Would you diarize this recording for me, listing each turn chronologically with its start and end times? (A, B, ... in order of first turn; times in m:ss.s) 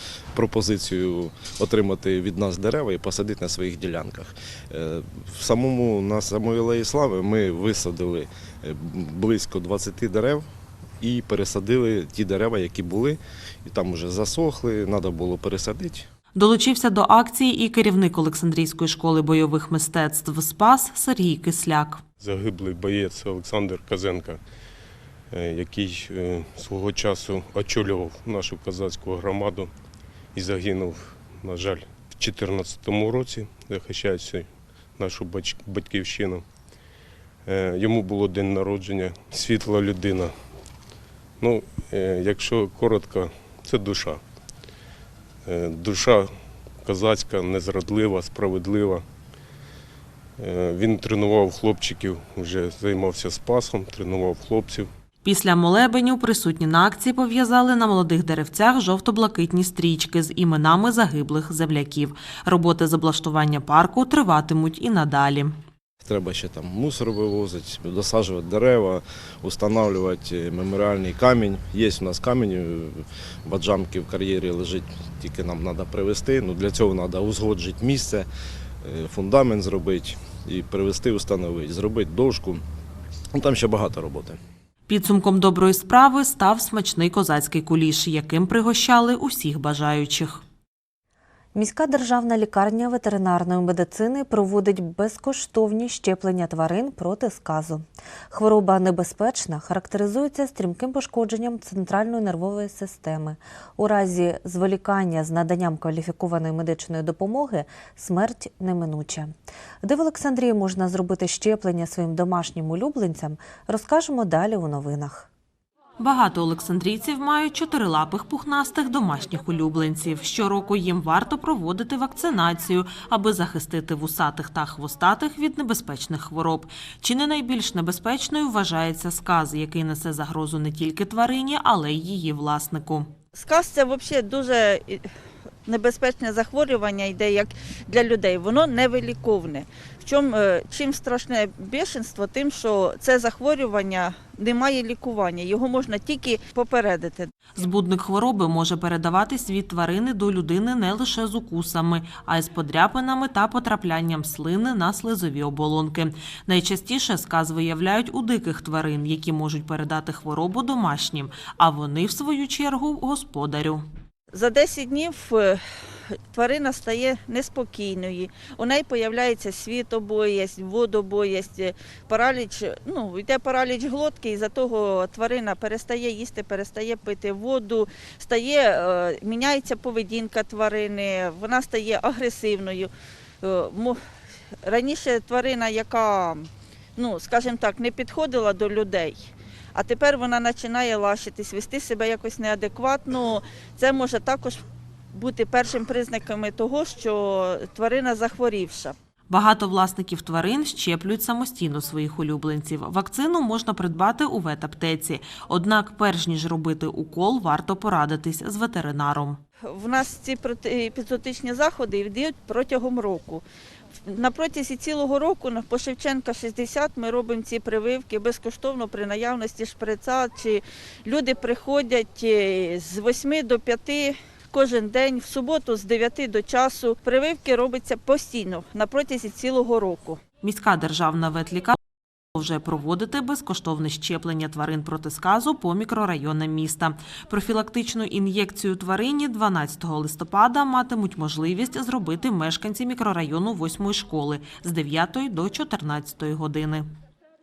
0:00.3-0:10.4 A
0:11.0-0:16.1 A
0:16.4-0:22.0 B
0:22.2-0:24.4 C
0:25.3-0:29.7 C
0:30.4-0:36.4 C
0:37.5-0:40.3 C
0:41.4-0:44.2 C
0:45.5-0:46.3 C
0:46.8-0:49.0 C
0:50.4-0:54.9 C
0:55.2-1:05.6 B
1:06.0-1:18.3 A
1:18.8-1:22.6 A
1:23.3-1:24.4 A
1:24.9-1:30.4 B
1:31.6-1:49.3 D
1:49.8-1:55.3 D
1:56.0-2:13.1 B
2:13.3-2:15.1 E
2:15.7-2:27.3 E
2:27.6-2:43.8 B
2:44.3-2:45.6 E
2:46.3-3:02.9 E
3:03.4-3:04.0 E
3:04.6-3:19.0 E
3:19.3-3:29.4 B
3:29.7-3:33.4 E
3:34.1-3:50.2 E
3:50.4-3:51.8 B
3:52.3-4:06.9 B